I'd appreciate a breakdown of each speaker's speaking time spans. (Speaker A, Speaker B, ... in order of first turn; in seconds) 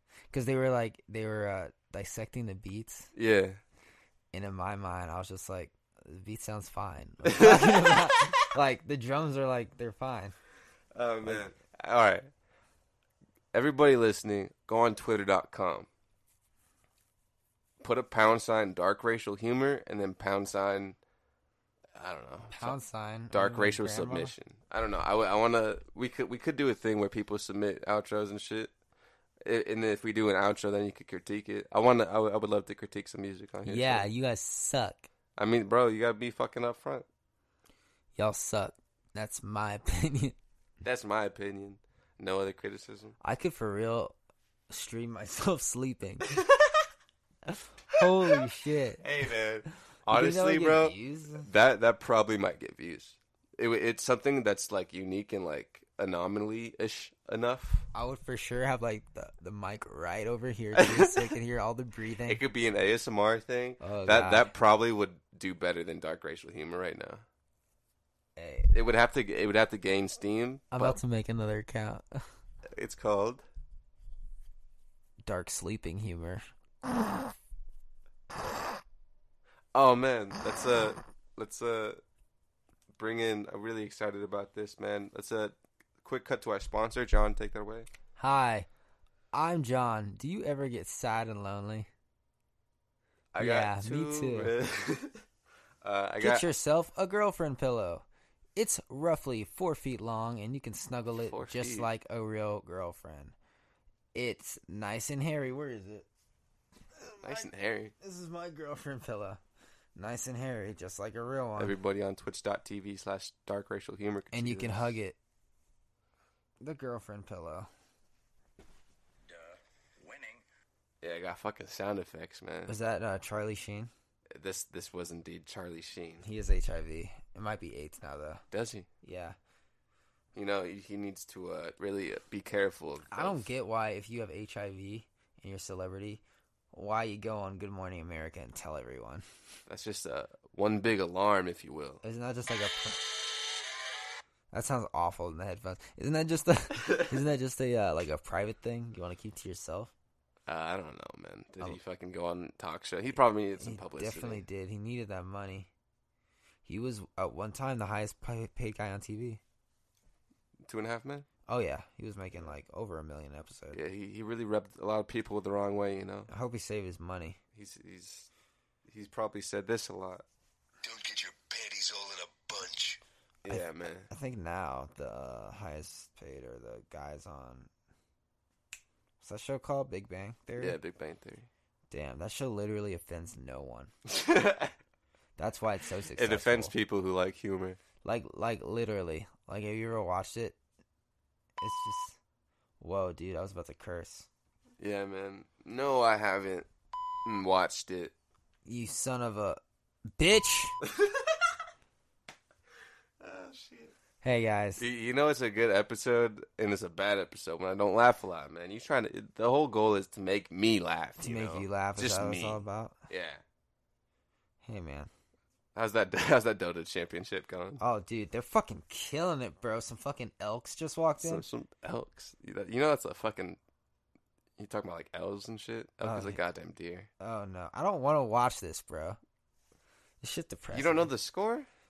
Speaker A: 0.3-3.1, 4.3-10.4, 22.5-24.4, 33.6-35.1, 38.2-40.4, 43.2-44.2, 44.7-46.4, 47.9-49.0, 50.1-51.5, 57.9-62.4, 63.8-64.5, 68.4-68.7, 70.7-72.3, 75.3-76.5, 88.2-88.7, 89.3-91.9, 93.4-94.5, 96.2-98.0, 98.6-103.3, 104.2-106.1, 107.0-107.5, 108.0-109.4, 110.0-111.8, 114.3-115.2, 116.6-117.7, 122.7-123.9, 126.2-128.4, 129.0-129.4, 133.1-139.3, 142.0-143.1, 144.5-149.9, 153.6-155.7, 156.7-159.4, 161.5-163.8, 166.3-167.4, 173.5-177.7, 179.2-180.8, 181.9-183.9, 185.4-186.7, 188.0-190.6, 191.6-192.2, 192.8-194.3, 198.7-199.6, 200.2-200.8, 204.2-204.8, 211.2-213.0, 214.6-215.1, 217.8-221.4, 226.0-226.4, 227.2-229.2, 230.2-231.1
Speaker B: 3.1-3.6, 7.2-8.5, 10.9-12.3, 13.5-15.9, 17.8-21.0, 21.9-22.8, 23.3-28.7, 29.4-34.1, 35.4-37.1, 40.8-43.2, 49.0-57.9, 60.8-61.4, 62.2-67.2, 68.7-71.0, 72.7-73.4, 79.7-82.0, 83.0-87.9, 93.3-95.2, 95.8-96.5, 101.3-101.9, 107.2-107.9, 111.6-115.0, 121.0-122.8, 124.3-126.2, 128.5-128.9, 130.3-133.5, 139.7-142.0, 150.5-154.4, 160.6-161.3, 163.7-166.3, 167.5-168.3, 168.9-170.2, 172.5-174.1, 180.6-181.5, 184.1-184.7, 186.2-187.8, 194.8-196.7, 197.2-198.1, 200.8-201.4, 203.2-203.9, 204.8-213.4, 215.8-217.8, 221.2-223.6, 224.6-227.1, 230.7-231.7
Speaker C: 119.3-120.4, 170.8-172.9